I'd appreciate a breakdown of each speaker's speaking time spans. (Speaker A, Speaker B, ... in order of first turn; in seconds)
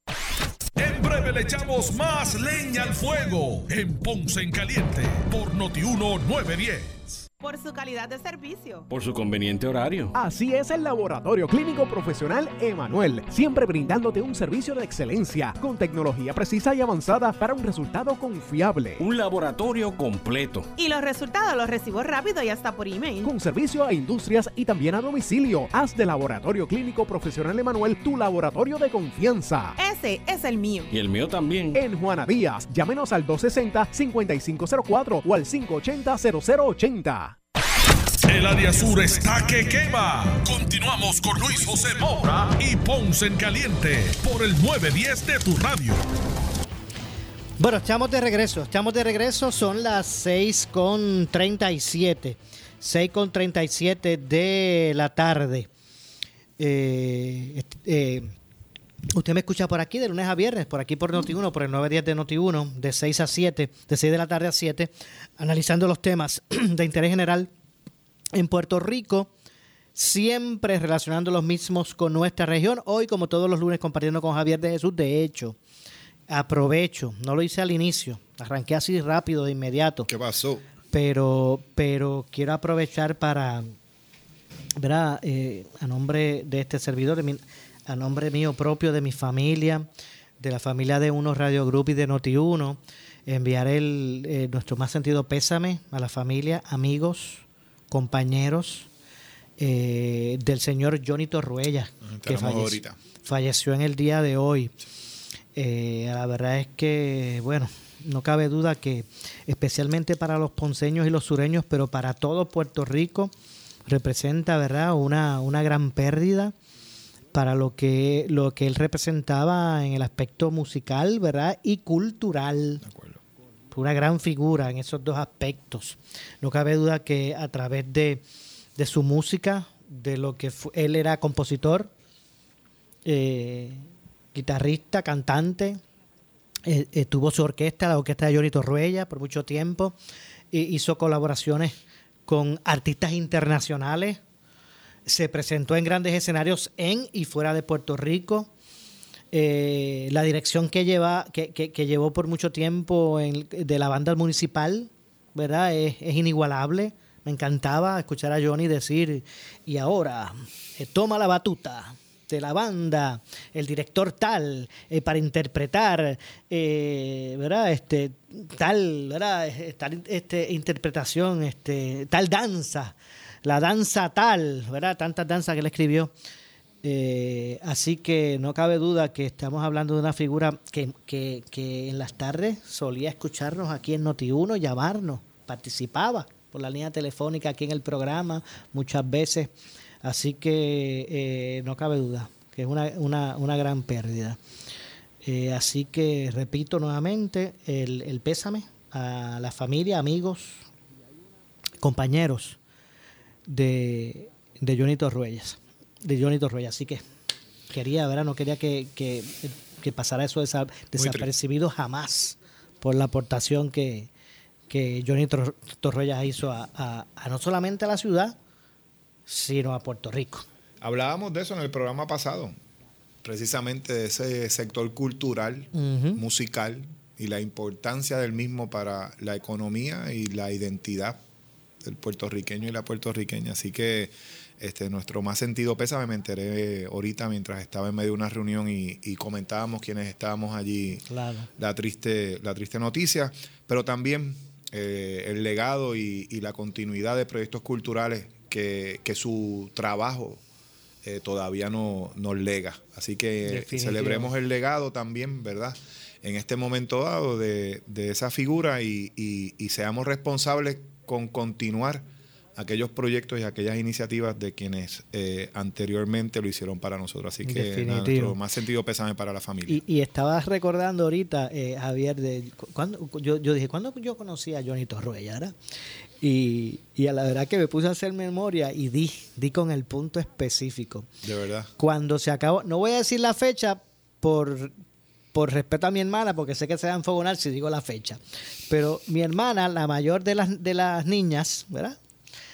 Speaker A: 0.8-7.2, 38.3-46.0
Speaker B: 7.4-8.9, 20.8-23.3, 29.8-30.9
Speaker C: 8.9-10.1, 19.0-20.7, 30.9-31.8
Speaker D: 10.1-19.0, 23.2-29.7, 31.7-37.4
Speaker E: 47.6-55.7, 56.6-58.3, 59.1-67.5, 68.3-69.3, 70.0-75.6, 76.3-80.1, 80.9-83.7, 84.8-89.9, 90.4-98.9, 99.6-104.8, 105.5-113.3, 113.9-116.5, 117.3-122.8, 123.7-128.2, 128.8-131.9, 133.1-135.8, 136.7-140.0, 140.5-144.2, 145.1-148.5, 149.3-176.1, 176.8-189.5, 190.0-194.4, 195.2-200.6, 201.8-202.6, 203.5-207.0, 207.7-214.1, 214.7-218.4, 219.3-220.4, 225.7-226.2, 241.1-241.5, 253.4-254.3, 267.4-268.4, 269.7-275.5, 276.2-281.1, 281.8-284.7, 285.3-292.0
Speaker F: 80.1-80.6, 102.0-103.0, 122.8-123.2, 210.9-211.3, 220.8-222.6, 223.2-231.2, 231.8-241.1, 241.6-250.4, 251.0-262.0, 262.6-269.8, 281.2-281.7